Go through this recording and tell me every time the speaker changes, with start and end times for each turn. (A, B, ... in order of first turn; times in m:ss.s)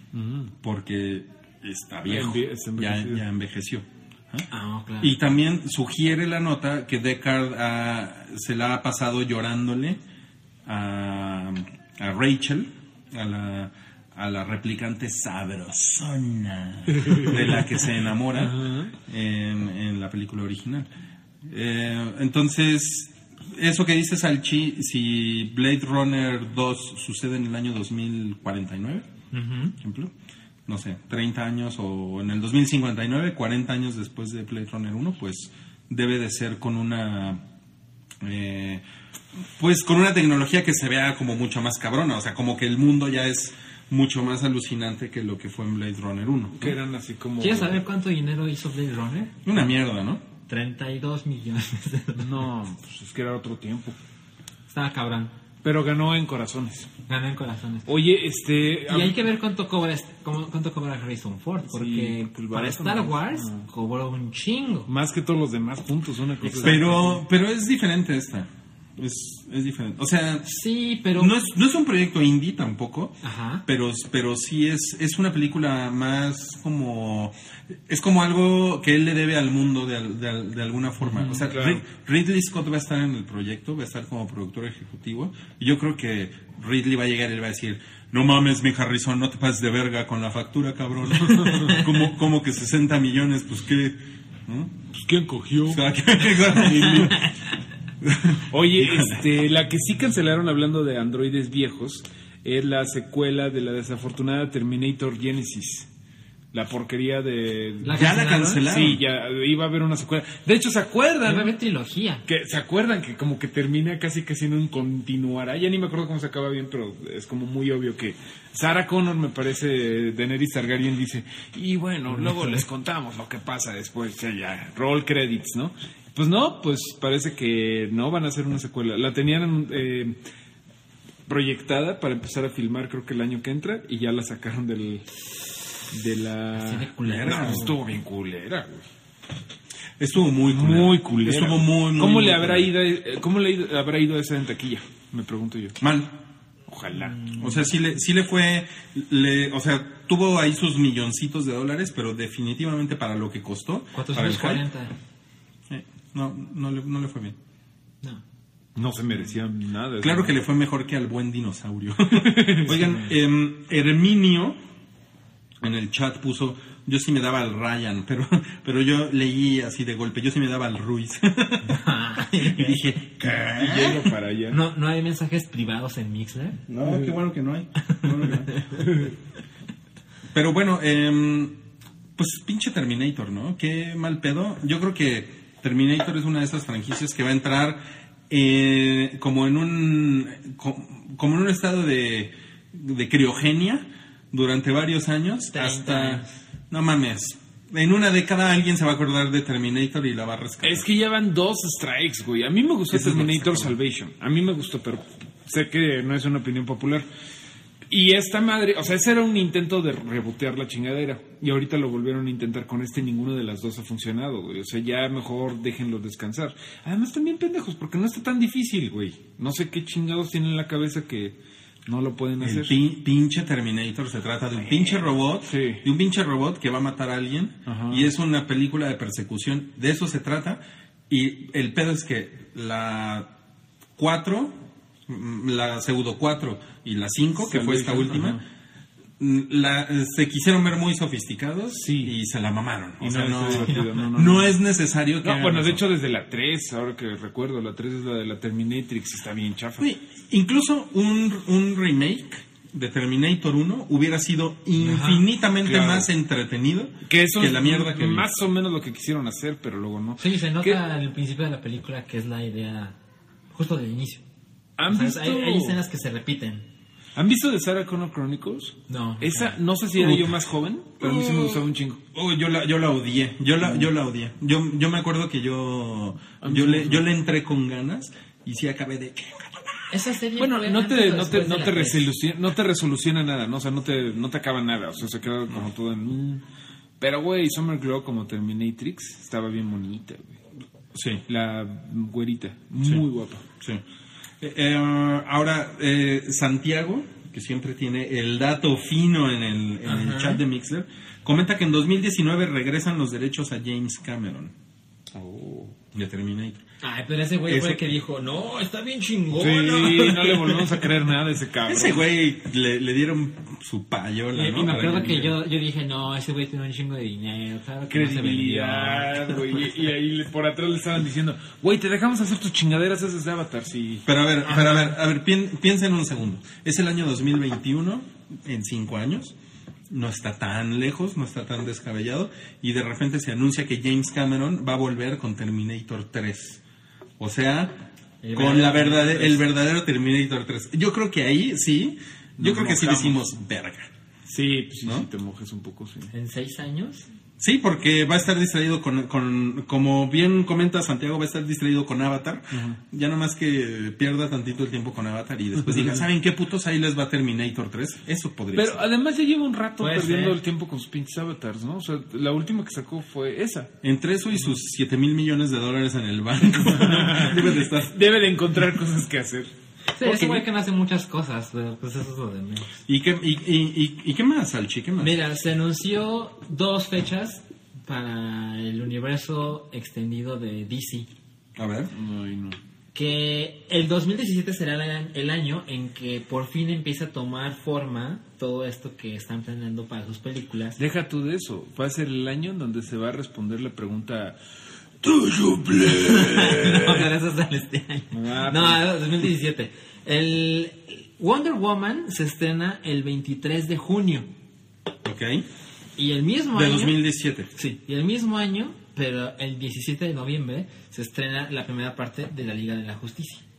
0:00.1-0:00.5 A
0:00.6-0:04.4 B
0:02.0-0:03.2 A
0:04.5-0:05.2 C
0:05.0-0:10.0 B
0:10.6-0:20.9 B
0:17.0-0:17.4 A
0:18.3-0:18.9 A
0:21.4-0:29.1 B
0:29.3-0:29.7 C
0:29.8-0:30.1 B
0:30.7-0:37.4 B
0:38.2-0:38.8 B
0:39.6-0:46.8 B
0:46.5-0:47.8 A
0:47.4-0:49.4 C
0:49.4-0:50.2 B
0:50.5-0:52.4 C
0:52.2-0:54.0 A
0:54.7-0:55.3 C
0:55.6-0:56.9 A
0:57.1-0:57.9 C
0:57.9-0:59.2 A
0:58.9-1:04.9 C
1:01.6-1:03.7 A
1:04.9-1:07.2 A
1:06.5-1:10.5 B
1:10.4-1:11.3 C
1:11.2-1:17.3 B
1:13.2-1:13.6 C
1:17.9-1:34.7 B
1:21.1-1:21.8 A
1:31.2-1:31.8 A
1:34.9-1:37.2 A
1:35.7-1:37.3 B
1:38.0-1:39.2 B
1:38.4-1:45.9 A
1:46.5-1:48.0 A
1:47.8-1:48.6 C
1:47.9-1:49.0 B
1:48.6-1:51.5 A
1:51.2-1:52.2 C
1:52.2-2:10.2 A
2:11.3-2:15.1 A
2:15.9-2:18.8 A
2:16.5-2:17.8 C
2:17.0-2:17.7 B
2:20.0-2:22.7 B
2:20.5-2:25.8 A
2:25.8-2:26.2 B
2:26.7-2:27.2 A
2:26.9-2:27.6 C
2:27.3-2:34.6 B
2:33.9-2:34.9 C
2:35.7-2:37.4 B
2:38.7-2:40.4 A
2:40.0-2:44.6 B
2:42.2-2:42.8 A
2:45.6-2:51.8 B
2:51.7-2:52.8 C
2:52.4-2:54.1 B
2:53.6-2:54.6 A
2:54.5-2:56.6 C
2:56.7-2:58.5 B
2:57.9-2:58.8 C
3:00.3-3:01.6 B
3:02.2-3:20.8 B
3:15.5-3:16.4 C
3:20.6-3:27.0 A
3:22.9-3:23.8 B
3:27.9-3:42.8 A
3:42.4-3:53.3 B
3:45.4-3:45.8 A
3:47.6-3:48.1 A
3:54.0-3:58.4 B
3:57.4-3:58.4 A
3:59.2-4:05.8 B
4:01.8-4:02.1 A
4:03.0-4:04.6 A
4:05.2-4:09.9 A
4:09.8-4:18.3 B
4:14.8-4:15.3 C
4:15.6-4:16.1 A
4:17.1-4:20.8 A
4:20.2-4:23.0 C
4:23.5-4:24.2 C
4:24.8-4:25.8 A
4:24.9-4:26.6 C
4:27.2-4:32.0 A
4:28.9-4:29.6 C
4:30.0-4:30.4 B
4:31.0-4:39.8 B
4:36.4-4:37.0 A
4:39.9-4:42.1 C
4:40.4-4:46.4 A
4:47.0-4:50.4 A
4:50.9-4:51.2 B
4:51.2-4:53.4 A
4:52.8-4:53.0 B
4:54.4-5:04.5 B
4:59.8-5:00.4 C
5:05.1-5:05.7 A
5:05.9-5:06.6 B
5:06.8-5:10.8 C
5:07.5-5:07.8 B
5:09.3-5:12.0 A
5:11.6-5:15.3 B
5:14.3-5:19.6 C
5:14.5-5:15.3 A
5:17.9-5:24.0 A
5:24.0-5:29.3 B
5:29.9-5:36.6 B
5:37.2-5:37.7 B
5:38.2-5:39.4 C
5:38.3-5:43.9 B
5:42.4-5:43.2 A
5:44.2-5:46.1 A
5:46.1-5:47.1 C
5:47.4-5:58.8 B
5:52.5-5:52.8 A
5:58.5-6:03.7 A
5:59.8-6:00.4 C
6:03.8-6:08.0 B
6:06.6-6:09.5 A
6:10.0-6:12.8 C
6:10.0-6:10.4 B
6:12.8-6:15.2 B
6:15.0-6:21.1 C
6:21.6-6:21.9 B
6:21.9-6:22.6 A
6:22.9-6:30.8 C
6:30.8-6:34.4 A
6:35.0-6:37.0 A
6:35.9-6:44.3 C
6:38.1-6:38.8 A
6:45.0-6:45.4 B
6:46.0-6:47.0 C
6:46.5-6:47.5 B
6:47.5-6:53.4 C